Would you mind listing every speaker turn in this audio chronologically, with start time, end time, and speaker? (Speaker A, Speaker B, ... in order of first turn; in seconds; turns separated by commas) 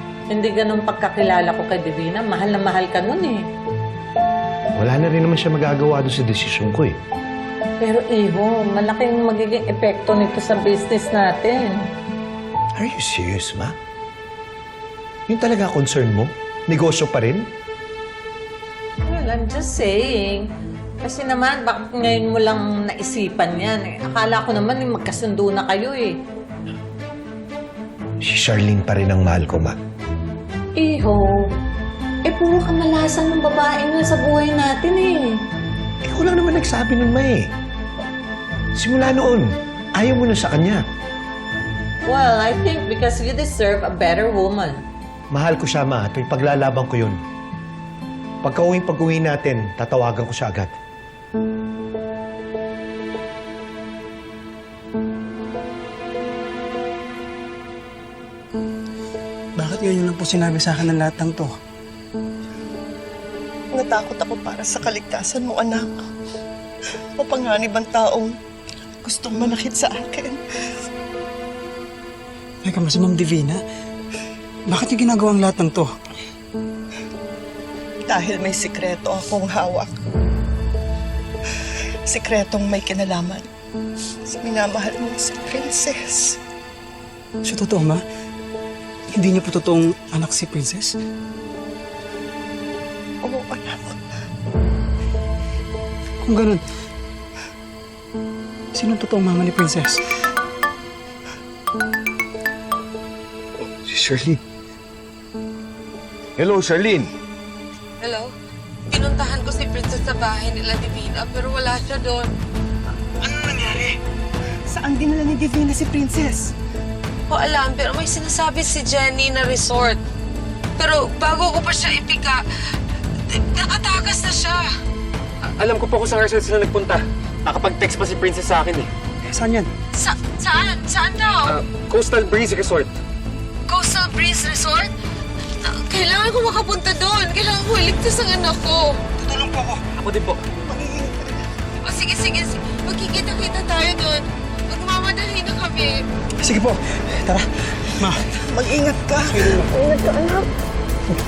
Speaker A: 0.3-3.5, Speaker B: 4.8-7.0, Speaker A: 7.8-11.8, Speaker B: 12.8-13.7, Speaker B: 15.3-17.5, Speaker A: 19.1-20.5, Speaker A: 21.0-26.2, Speaker B: 28.2-29.8, Speaker A: 30.8-31.5, Speaker A: 32.2-35.4, Speaker B: 36.0-37.5, Speaker B: 38.8-40.8, Speaker A: 42.1-44.8, Speaker B: 45.3-47.2, Speaker B: 48.4-50.7, Speaker C: 59.6-61.5, Speaker D: 63.7-66.1, Speaker D: 67.2-68.4, Speaker D: 69.0-70.4, Speaker C: 72.6-73.6, Speaker C: 74.7-75.9, Speaker D: 78.0-80.0, Speaker D: 82.1-83.5, Speaker D: 84.3-86.4, Speaker C: 87.4-88.0, Speaker C: 89.1-91.0, Speaker D: 93.2-94.0, Speaker C: 96.2-96.6, Speaker C: 98.7-100.0, Speaker B: 106.4-106.7, Speaker E: 108.0-108.3, Speaker E: 108.9-112.3, Speaker E: 113.3-113.9, Speaker D: 114.7-116.5, Speaker E: 117.3-120.0, Speaker E: 120.8-122.4, Speaker E: 123.3-124.7, Speaker F: 125.5-128.9, Speaker C: 129.3-129.7, Speaker E: 129.9-131.6, Speaker F: 131.4-132.9, Speaker E: 133.7-134.9, Speaker E: 135.6-139.0, Speaker C: 139.2-139.8, Speaker F: 140.0-140.5, Speaker D: 140.5-141.5, Speaker E: 141.8-146.0, Speaker C: 146.4-148.3, Speaker D: 148.0-150.4, Speaker C: 149.2-149.7